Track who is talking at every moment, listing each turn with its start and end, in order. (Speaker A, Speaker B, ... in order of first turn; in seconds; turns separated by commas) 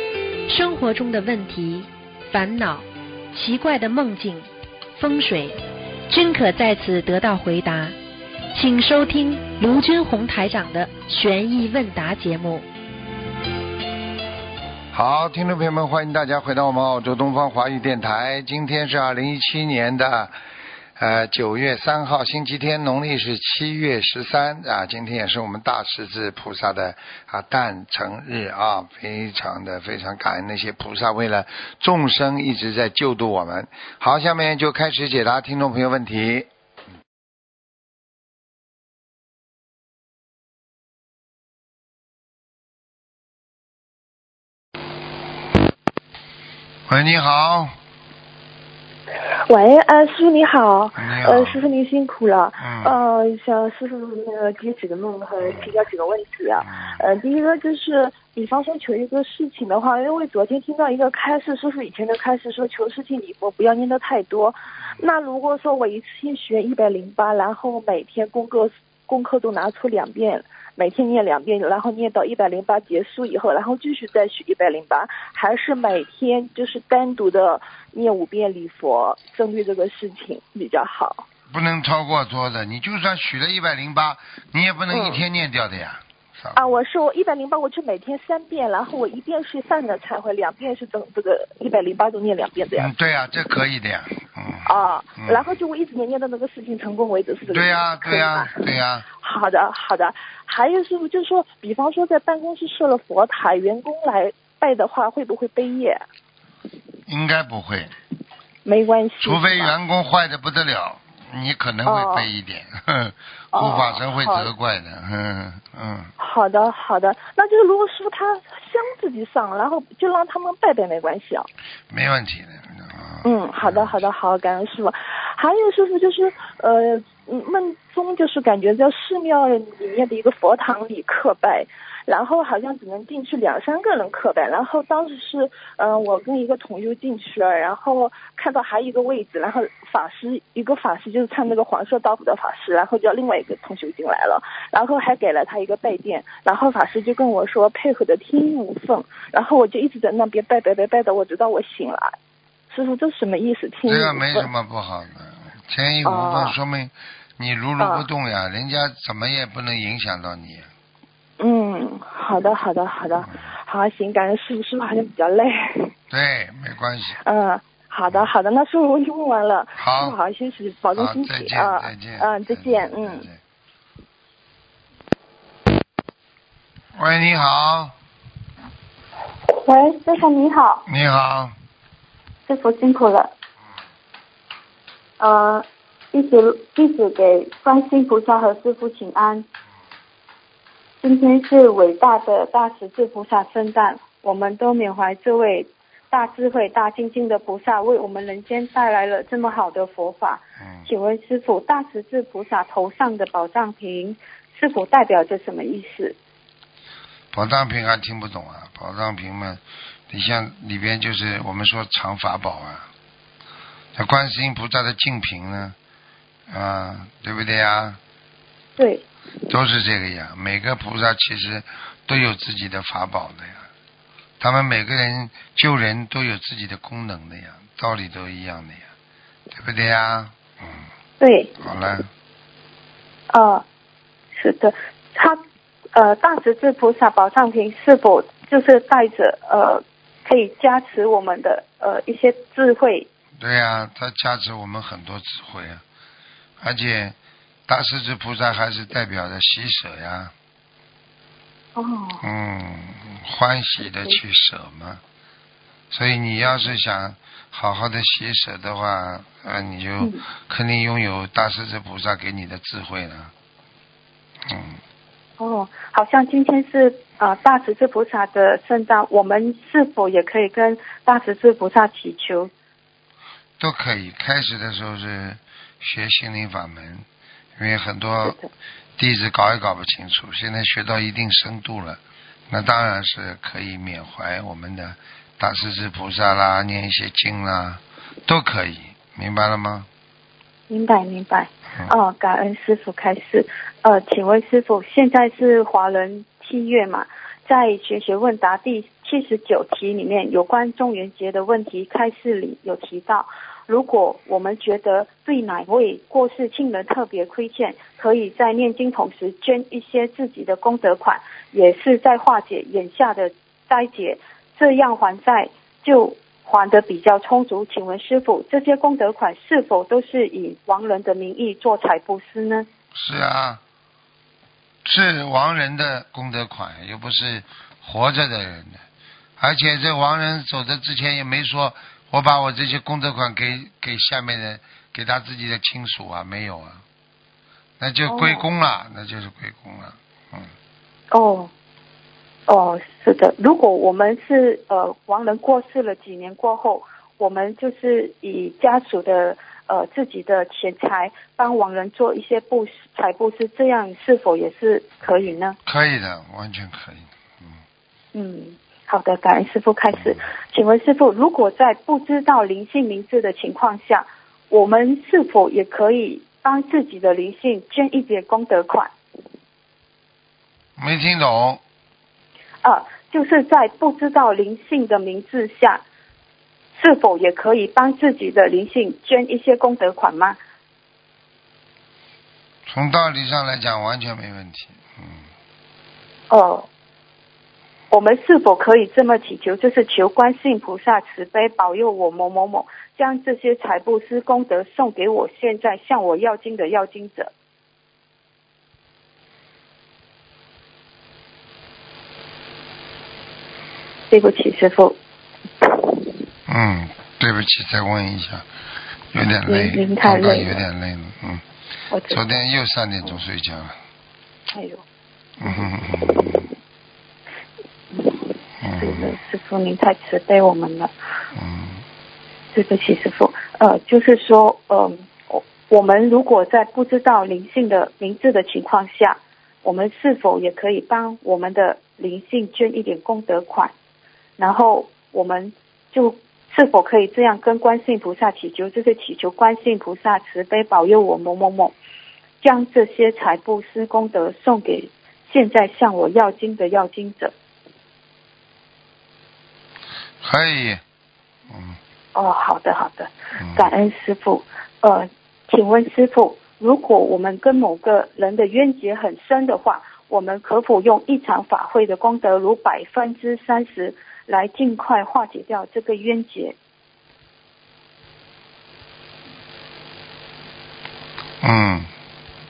Speaker A: 0.5-5.5, Speaker A: 6.1-7.9, Speaker A: 8.5-12.7, Speaker B: 14.9-20.4, Speaker B: 21.0-36.5, Speaker B: 46.9-47.7, Speaker C: 49.5-81.2, Speaker B: 51.0-51.6, Speaker B: 52.6-53.0, Speaker B: 56.6-56.9, Speaker B: 81.5-86.8, Speaker C: 84.9-85.2, Speaker C: 86.5-92.9, Speaker B: 92.7-95.4, Speaker C: 94.6-98.5, Speaker B: 97.5-99.0, Speaker C: 99.2-106.0, Speaker B: 107.1-107.9, Speaker C: 108.6-109.7, Speaker B: 109.2-116.1, Speaker C: 111.8-112.3, Speaker C: 113.5-114.5, Speaker C: 116.2-121.5, Speaker B: 121.9-124.0, Speaker C: 123.2-152.1, Speaker C: 152.7-154.5, Speaker B: 153.8-160.7, Speaker C: 156.0-156.5, Speaker C: 157.8-158.1, Speaker C: 161.4-165.9, Speaker B: 166.1-167.2, Speaker C: 167.2-173.3, Speaker B: 169.8-170.2, Speaker B: 170.9-173.4, Speaker B: 176.9-177.9, Speaker D: 179.5-180.8, Speaker B: 180.9-181.5, Speaker D: 182.4-183.3, Speaker D: 185.2-189.4, Speaker D: 191.0-206.2, Speaker B: 200.6-200.9, Speaker B: 207.3-212.9, Speaker B: 213.9-215.7, Speaker B: 216.5-218.0, Speaker D: 218.8-219.0, Speaker B: 219.5-223.7, Speaker B: 224.4-228.9, Speaker B: 229.5-230.8, Speaker D: 231.2-231.5, Speaker B: 231.6-232.1, Speaker D: 233.3-233.6, Speaker D: 234.3-235.4, Speaker D: 235.9-243.1, Speaker B: 243.4-245.8, Speaker B: 246.6-247.1, Speaker B: 247.7-250.3, Speaker D: 251.8-252.2, Speaker B: 252.2-255.0, Speaker B: 255.9-263.3, Speaker B: 264.4-264.8, Speaker D: 265.4-272.5, Speaker B: 273.6-277.1, Speaker B: 277.6-278.4, Speaker D: 278.2-278.5, Speaker B: 279.0-289.9, Speaker D: 290.7-322.7, Speaker B: 322.9-323.6, Speaker B: 324.8-328.8, Speaker B: 329.4-336.8, Speaker B: 337.8-340.5, Speaker D: 338.1-338.4, Speaker D: 341.1-341.5, Speaker D: 342.5-355.6, Speaker B: 355.6-357.6, Speaker D: 358.1-368.9, Speaker B: 370.8-371.6, Speaker D: 372.6-375.8, Speaker D: 376.7-380.4, Speaker B: 382.7-385.2, Speaker D: 386.3-386.7, Speaker D: 387.9-397.3, Speaker D: 404.1-404.9, Speaker B: 406.5-408.4, Speaker B: 409.1-411.4, Speaker D: 409.5-410.6, Speaker D: 411.9-412.2, Speaker B: 412.1-413.8, Speaker D: 414.5-414.8, Speaker B: 415.4-416.4, Speaker D: 415.4-416.3, Speaker D: 417.9-420.9, Speaker B: 418.6-419.1, Speaker B: 421.3-421.8, Speaker D: 422.5-433.7, Speaker D: 434.4-441.7, Speaker D: 442.4-447.3, Speaker B: 450.2-450.8, Speaker B: 451.5-451.8, Speaker D: 452.1-466.6, Speaker B: 453.4-453.7, Speaker B: 471.4-471.9